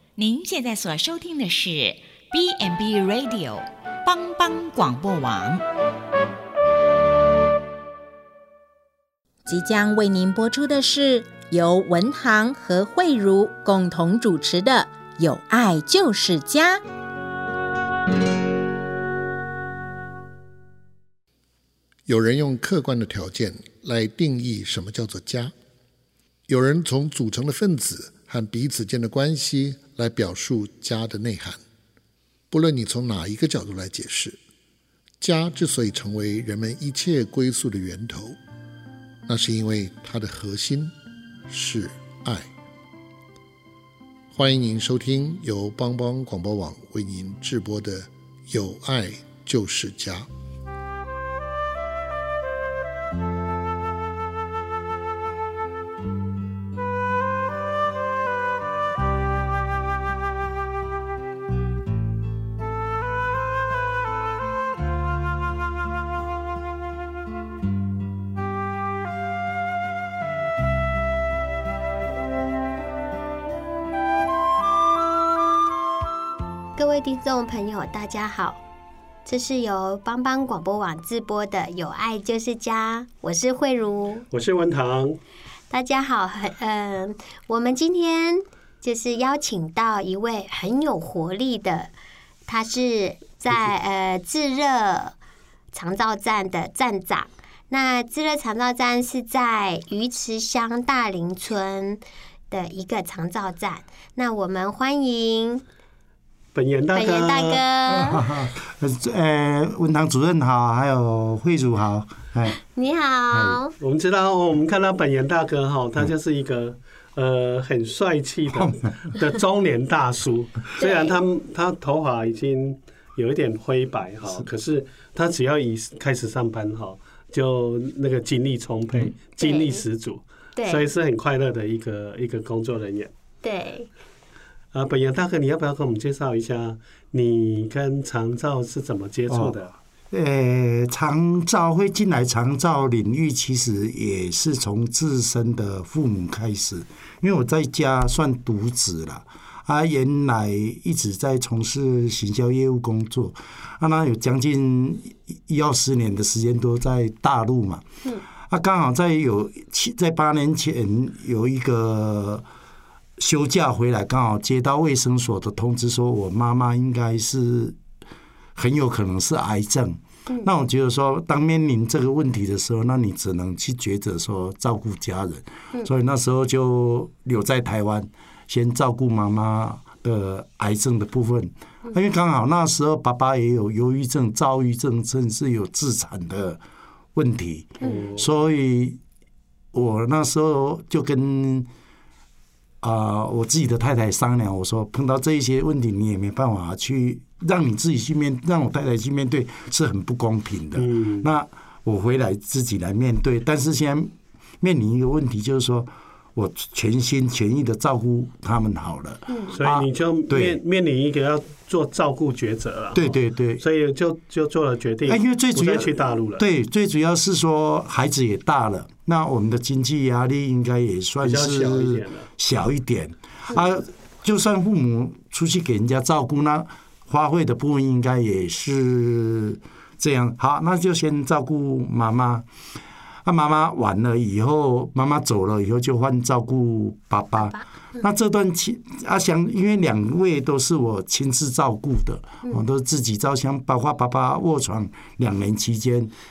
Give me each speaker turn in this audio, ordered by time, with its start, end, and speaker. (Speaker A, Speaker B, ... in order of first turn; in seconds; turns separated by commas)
Speaker A: 0.2-5.6, Speaker B: 9.5-16.8, Speaker C: 22.1-25.5, Speaker C: 26.5-31.6, Speaker C: 32.5-34.4, Speaker C: 35.2-38.4, Speaker C: 39.3-40.9, Speaker C: 41.5-42.5, Speaker C: 44.3-50.3, Speaker D: 76.8-78.6, Speaker D: 79.2-84.3, Speaker E: 84.3-85.2, Speaker D: 85.7-91.9, Speaker D: 92.5-95.2, Speaker D: 95.7-105.6, Speaker E: 106.5-107.6, Speaker D: 106.9-108.2, Speaker F: 107.9-112.6, Speaker D: 112.6-113.7, Speaker F: 113.3-113.6, Speaker E: 113.8-133.1, Speaker F: 118.5-118.8, Speaker D: 120.8-121.2, Speaker D: 129.4-129.8, Speaker D: 130.6-130.8, Speaker D: 133.4-133.9, Speaker E: 134.7-139.7, Speaker F: 139.3-139.6, Speaker F: 140.1-157.8, Speaker F: 158.4-162.4, Speaker F: 163.2-167.8, Speaker F: 168.6-186.6, Speaker F: 187.2-189.0, Speaker E: 187.8-188.3, Speaker F: 189.7-191.7, Speaker F: 192.8-210.6, Speaker E: 200.8-201.3, Speaker D: 209.3-209.5, Speaker E: 209.5-216.4, Speaker F: 212.9-213.6, Speaker F: 215.1-232.5, Speaker E: 221.2-222.3, Speaker F: 233.2-246.1, Speaker D: 237.4-238.1